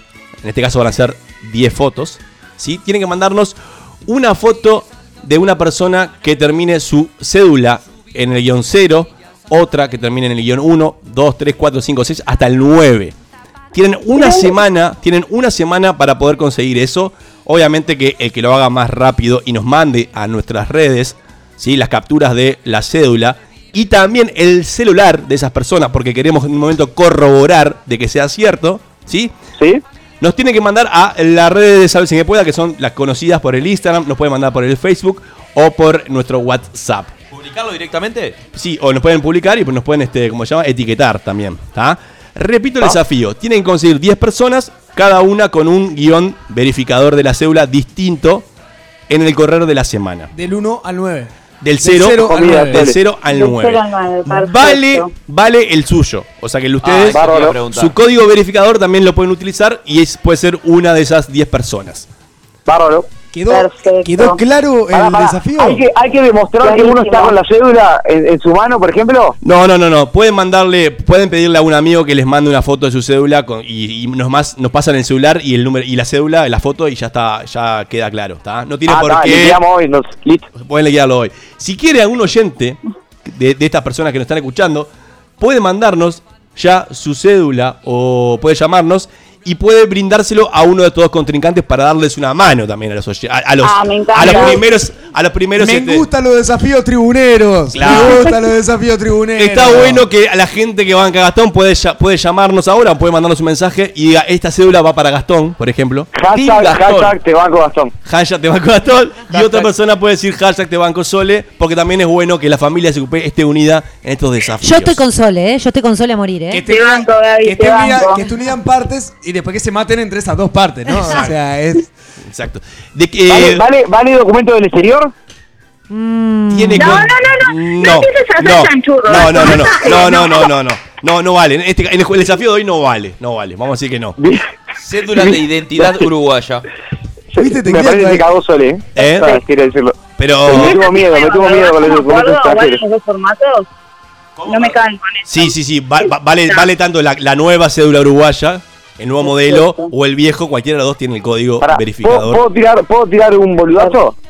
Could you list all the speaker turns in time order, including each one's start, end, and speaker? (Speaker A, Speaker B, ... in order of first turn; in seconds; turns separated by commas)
Speaker A: 0.4-13.1, Speaker A: 13.7-29.3, Speaker B: 14.1-14.5, Speaker A: 30.2-37.1, Speaker C: 37.3-38.4, Speaker A: 38.5-48.5, Speaker A: 49.1-50.3, Speaker D: 50.3-51.3, Speaker A: 51.6-62.1, Speaker D: 51.8-52.9, Speaker E: 52.2-53.0, Speaker B: 53.2-55.1, Speaker C: 56.8-57.9, Speaker E: 57.1-57.6, Speaker E: 62.7-63.1, Speaker D: 63.3-65.8, Speaker B: 63.5-64.4, Speaker E: 64.9-69.3, Speaker B: 66.6-67.3, Speaker A: 69.4-79.6, Speaker E: 78.9-80.5, Speaker A: 80.5-96.1, Speaker B: 93.6-94.6, Speaker D: 95.6-100.0, Speaker A: 97.7-98.3, Speaker B: 97.9-98.3, Speaker A: 99.3-106.1, Speaker E: 106.1-107.9, Speaker C: 106.3-107.2, Speaker A: 108.0-115.0, Speaker F: 114.6-116.6, Speaker D: 116.5-121.9, Speaker B: 116.6-118.2, Speaker A: 122.3-123.6, Speaker E: 123.3-125.1, Speaker F: 125.9-127.0, Speaker D: 126.5-127.0, Speaker A: 126.5-134.2, Speaker B: 126.7-130.5, Speaker E: 134.2-134.5, Speaker C: 134.8-136.6, Speaker E: 135.2-135.9, Speaker E: 137.3-142.8, Speaker D: 137.4-138.3, Speaker A: 138.9-139.4, Speaker A: 140.2-140.8, Speaker B: 140.5-143.7, Speaker C: 144.3-144.8, Speaker B: 144.5-145.5, Speaker A: 145.3-152.4, Speaker B: 149.2-149.9, Speaker E: 151.6-154.1